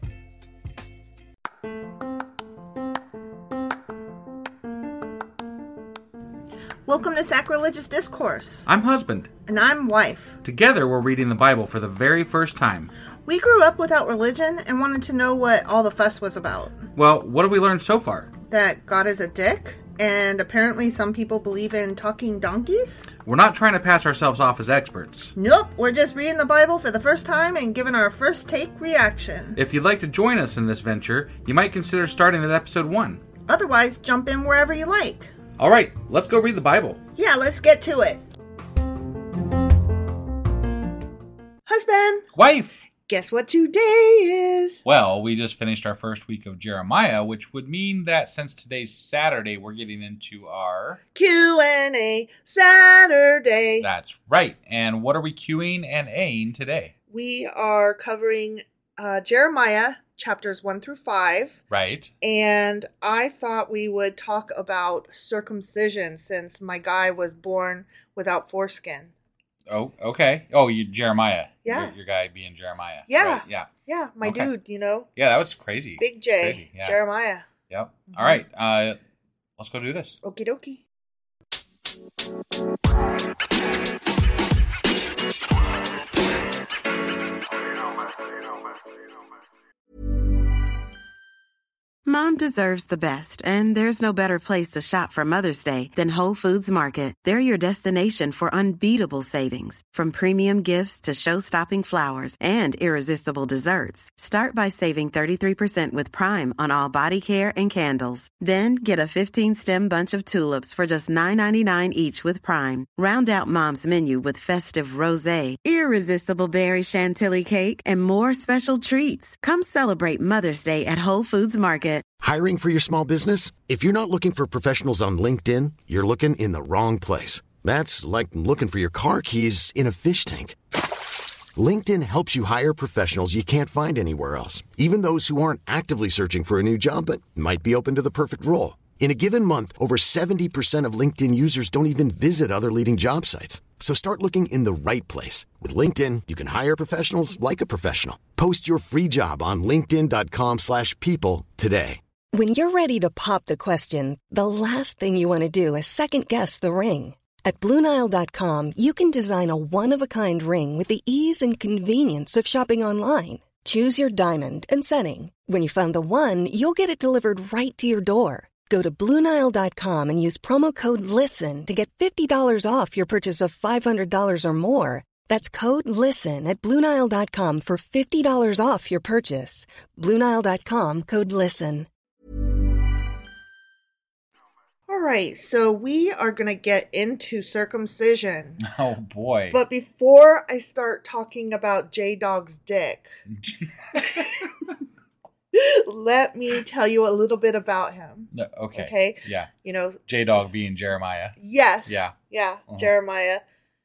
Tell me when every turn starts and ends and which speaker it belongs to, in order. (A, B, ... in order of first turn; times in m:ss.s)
0:06.8-0:08.7 A
0:08.6-0:09.3 B
0:09.4-0:10.4 A
0:10.4-0:12.9 B
0:13.2-0:16.8 A
0:16.9-0:18.3 B
0:18.5-0:23.1 A
0:23.2-0:25.3 B
0:25.4-0:29.6 A
0:29.6-0:33.2 B
0:33.5-0:35.3 A
0:35.6-0:37.0 B
0:37.2-0:38.2 A
0:41.6-0:42.2 A
0:42.3-0:42.7 B
0:43.1-0:44.8 A
0:44.8-0:51.0 B
0:51.1-0:53.9 A
0:53.8-0:56.9 B
0:57.1-1:01.6 A
1:01.7-1:02.1 B
1:02.2-1:09.1 A
1:09.7-1:13.7 B
1:11.6-1:11.9 A
1:13.1-1:15.1 A
1:14.2-1:14.5 B
1:15.2-1:17.0 B
1:16.0-1:17.4 A
1:17.7-1:19.0 B
1:18.1-1:18.4 A
1:19.6-1:20.2 B
1:20.2-1:20.8 A
1:32.0-2:02.0 C
2:02.2-2:10.6 D
2:11.6-2:32.0 D
2:32.3-3:01.9 E
3:04.9-3:08.6 A
3:08.6-3:09.6 B
3:09.5-3:13.1 A
3:13.3-3:14.0 B
3:13.9-3:14.2 A
3:15.5-3:20.3 A
3:18.3-3:19.5 B
3:20.1-3:22.1 B
3:21.4-3:23.4 A